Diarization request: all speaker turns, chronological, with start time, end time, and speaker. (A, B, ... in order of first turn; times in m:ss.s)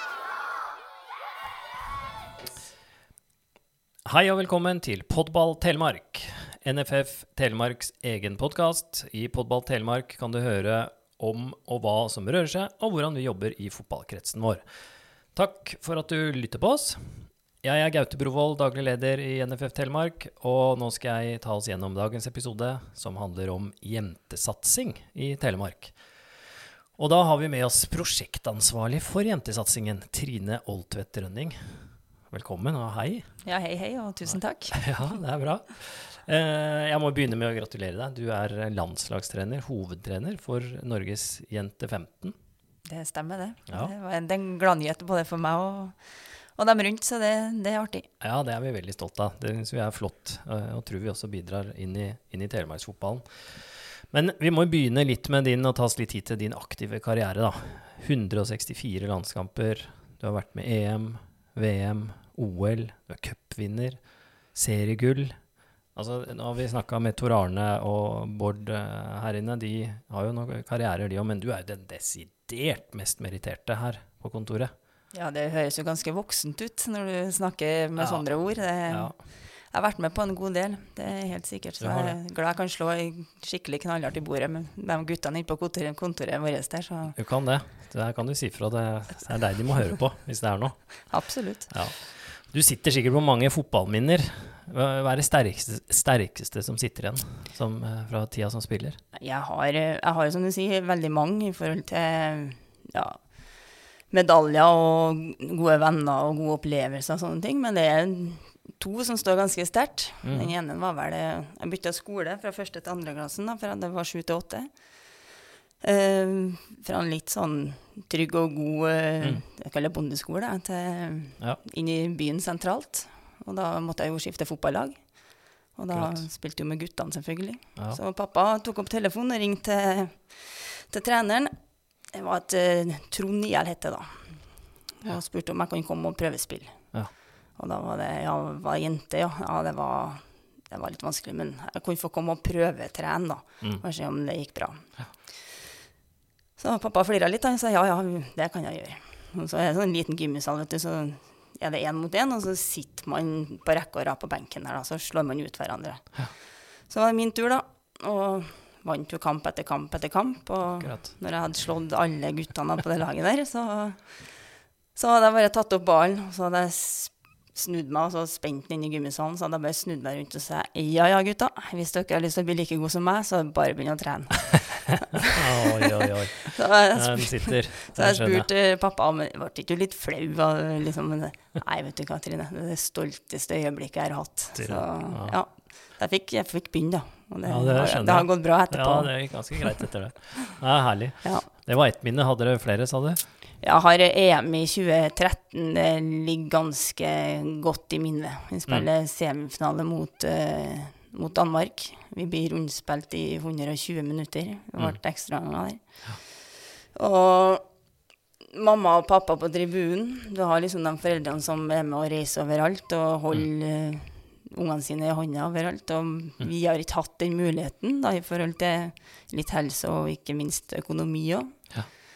0:04.0-0:14.6 A
0:15.3-0:26.0 A
0:27.0-0:33.3 A
0:33.4-0:34.9 B
0:34.3-0:42.3 A
0:42.8-0:48.1 B
0:48.2-1:04.0 A
1:04.5-1:05.4 A
1:05.9-1:14.7 A
1:15.1-1:27.2 B
1:18.0-1:19.1 A
1:21.8-1:22.2 A
1:27.1-1:39.0 A
1:31.1-1:31.7 B
1:39.1-1:43.2 B
1:44.1-1:54.8 B
1:50.2-1:50.5 A
1:55.8-2:25.6 B
2:05.9-2:06.2 A
2:26.6-2:44.4 B
2:40.8-2:41.1 A
2:44.9-2:55.4 B
2:55.3-2:58.5 A
2:56.5-3:09.8 B
3:04.5-3:05.4 A
3:07.4-3:13.3 A
3:11.2-3:11.5 B
3:13.6-3:27.6 B
3:28.5-3:41.6 B